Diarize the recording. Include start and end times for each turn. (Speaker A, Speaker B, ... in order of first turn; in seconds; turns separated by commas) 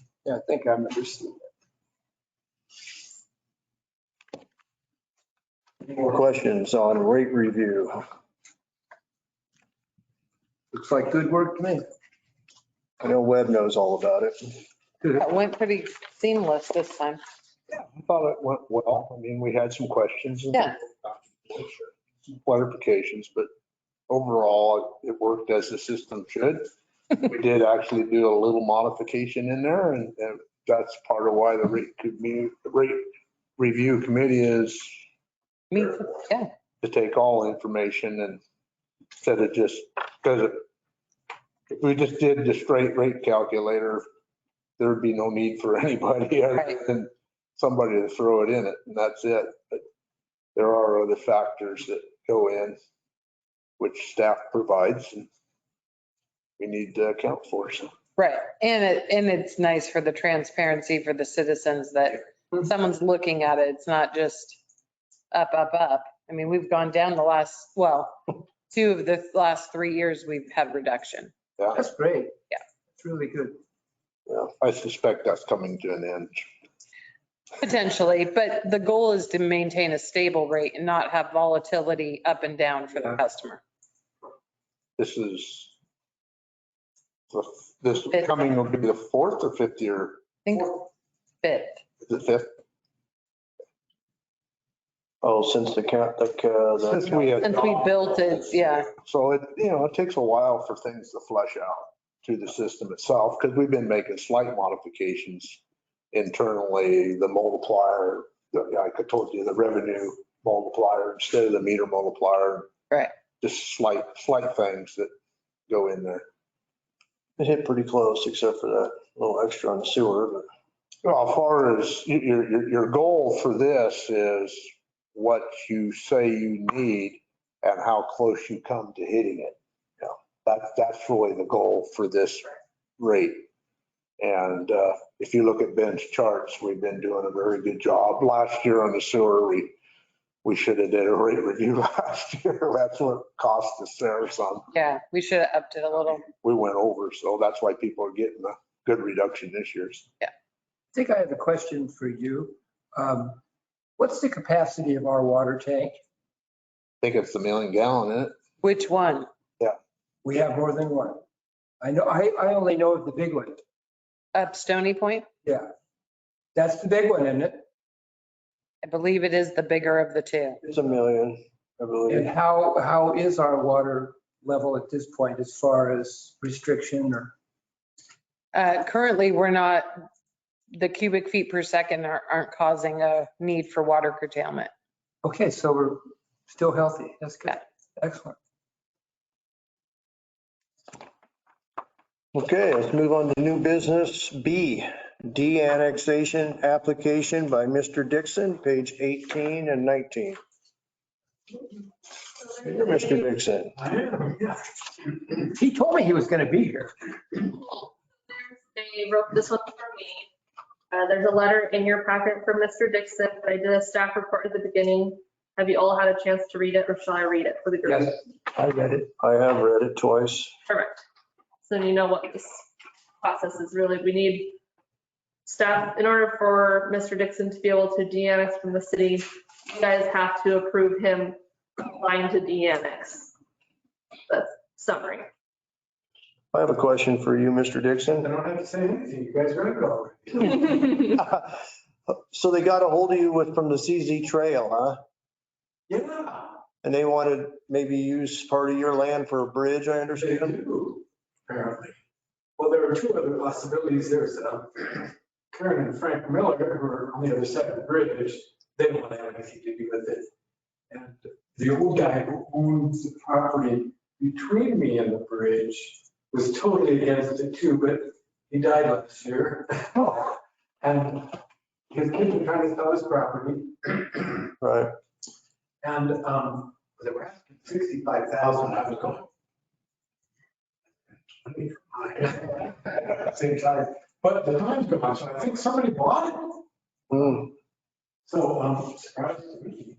Speaker A: 0.2-1.4, Speaker B: 5.8-8.0, Speaker A: 10.7-11.9, Speaker B: 13.0-14.5, Speaker C: 15.1-17.2, Speaker D: 17.7-21.9, Speaker D: 22.4-23.5, Speaker D: 24.1-26.7, Speaker D: 27.2-35.0, Speaker C: 35.7-36.5, Speaker D: 36.8-38.4, Speaker D: 39.2-40.6, Speaker D: 41.7-44.0, Speaker D: 44.8-49.8, Speaker D: 50.5-52.8, Speaker D: 53.8-55.3, Speaker D: 56.6-57.9, Speaker C: 58.2-64.6, Speaker C: 65.3-68.2, Speaker C: 68.7-71.3, Speaker A: 71.7-72.3, Speaker A: 73.0-73.6, Speaker D: 74.3-76.5, Speaker C: 77.6-83.6, Speaker D: 85.0-85.7, Speaker D: 87.3-90.2, Speaker C: 90.4-90.9, Speaker C: 91.4-91.8, Speaker D: 92.0-92.5, Speaker B: 95.2-97.4, Speaker D: 96.9-97.8, Speaker C: 97.4-98.9, Speaker D: 98.9-105.6, Speaker D: 106.1-112.7, Speaker D: 113.4-115.1, Speaker D: 115.7-116.2, Speaker B: 117.4-120.5, Speaker D: 121.0-129.6, Speaker D: 130.4-133.5, Speaker D: 134.2-139.8, Speaker D: 140.4-144.7, Speaker C: 144.7-146.3, Speaker D: 146.4-150.1, Speaker A: 150.9-153.4, Speaker A: 154.0-156.0, Speaker D: 157.0-158.3, Speaker C: 158.6-159.3, Speaker A: 160.2-161.2, Speaker A: 161.8-163.6, Speaker C: 164.3-165.3, Speaker A: 166.6-167.6, Speaker C: 168.8-170.6, Speaker B: 170.7-172.3, Speaker A: 172.1-177.3, Speaker C: 178.5-180.1, Speaker C: 180.7-184.7, Speaker A: 185.2-188.4, Speaker B: 192.3-200.4, Speaker E: 202.4-203.0, Speaker B: 202.6-203.8, Speaker A: 205.5-207.4, Speaker E: 208.3-210.3, Speaker E: 210.9-218.2, Speaker A: 217.9-219.1, Speaker B: 219.2-220.5, Speaker E: 220.7-221.0, Speaker E: 221.7-222.7, Speaker E: 223.2-224.6, Speaker E: 225.5-233.3, Speaker E: 234.3-235.3, Speaker B: 236.5-238.3, Speaker F: 238.5-240.4, Speaker B: 241.2-241.6, Speaker B: 242.3-245.0, Speaker B: 246.8-250.6, Speaker F: 251.5-251.9, Speaker F: 252.6-254.8, Speaker F: 255.5-260.2, Speaker F: 260.9-270.3, Speaker F: 270.8-271.2, Speaker F: 272.0-273.7, Speaker B: 274.6-274.9, Speaker F: 275.9-279.1, Speaker D: 281.4-281.9, Speaker F: 282.1-282.4, Speaker F: 283.4-283.9, Speaker F: 285.8-286.1, Speaker B: 287.1-287.4, Speaker D: 288.3-289.7